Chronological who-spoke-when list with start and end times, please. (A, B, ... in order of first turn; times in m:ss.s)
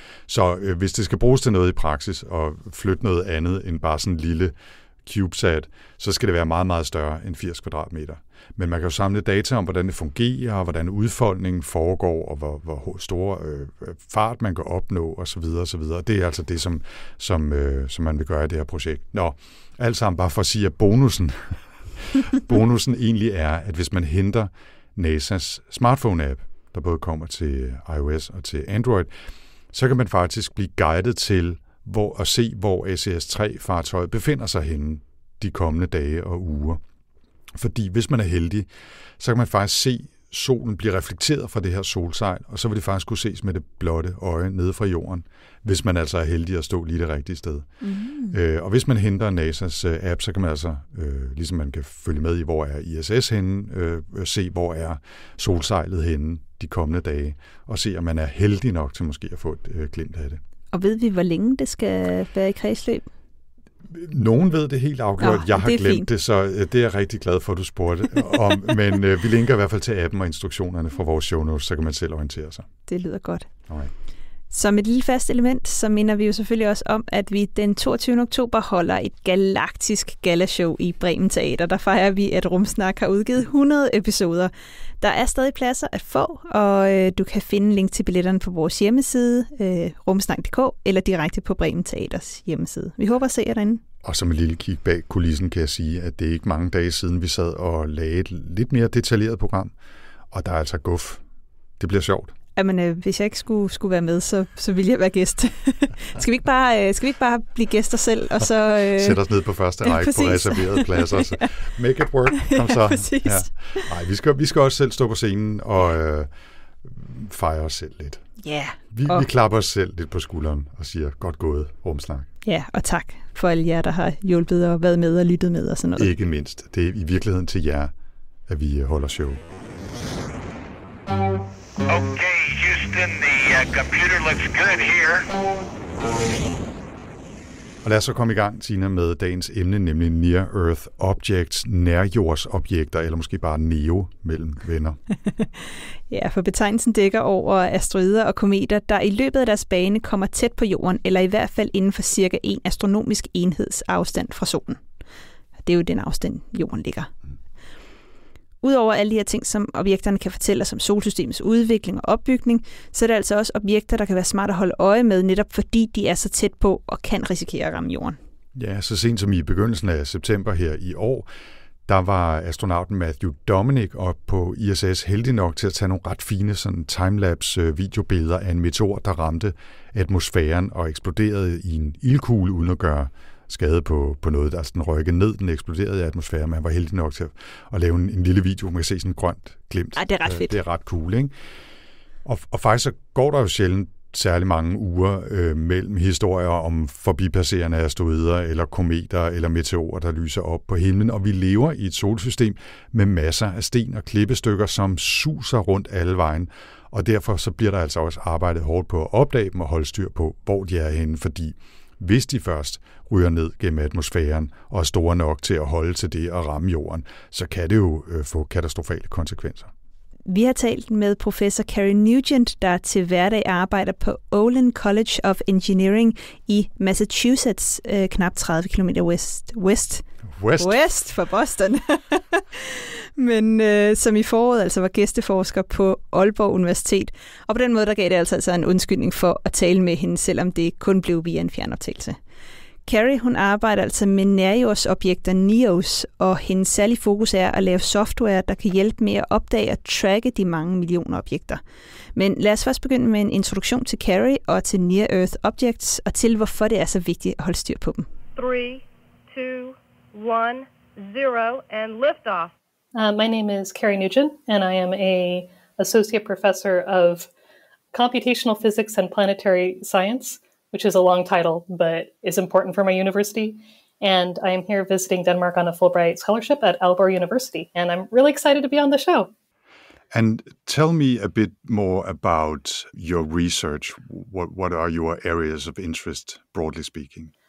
0:00.3-0:29.1 A
0:29.7-0:36.8 A
0:37.6-0:47.7 A
0:47.8-0:48.4 B
0:48.3-1:00.4 A
1:00.7-1:03.1 B
1:03.9-1:12.7 A
1:05.2-1:06.1 B
1:12.9-1:13.5 B
1:14.5-1:33.8 B
1:34.0-1:39.7 A
1:40.3-1:41.2 A
1:41.8-1:42.3 A
1:42.6-1:49.2 B
1:49.0-1:56.3 A
1:49.8-1:51.4 B
1:52.5-1:53.9 B
1:56.8-1:58.3 A
1:58.4-1:59.3 B
1:58.9-2:02.3 A
2:02.4-2:06.1 B
2:06.0-2:07.9 A
2:08.5-2:09.4 A
2:11.9-2:15.3 C
2:17.8-2:25.0 A
2:25.3-2:34.8 B
2:35.6-2:37.1 B
2:38.6-2:48.2 B
2:48.6-2:51.3 A
2:51.9-3:11.3 A
3:10.0-3:10.6 B
3:12.3-3:39.7 A
3:40.3-3:50.0 B
3:50.3-3:50.8 A
3:50.6-4:02.2 B
4:02.9-4:11.6 B
4:12.2-4:18.1 B
4:18.4-4:22.5 D
4:23.0-4:27.3 E
4:27.9-4:39.3 E
4:40.1-4:47.3 A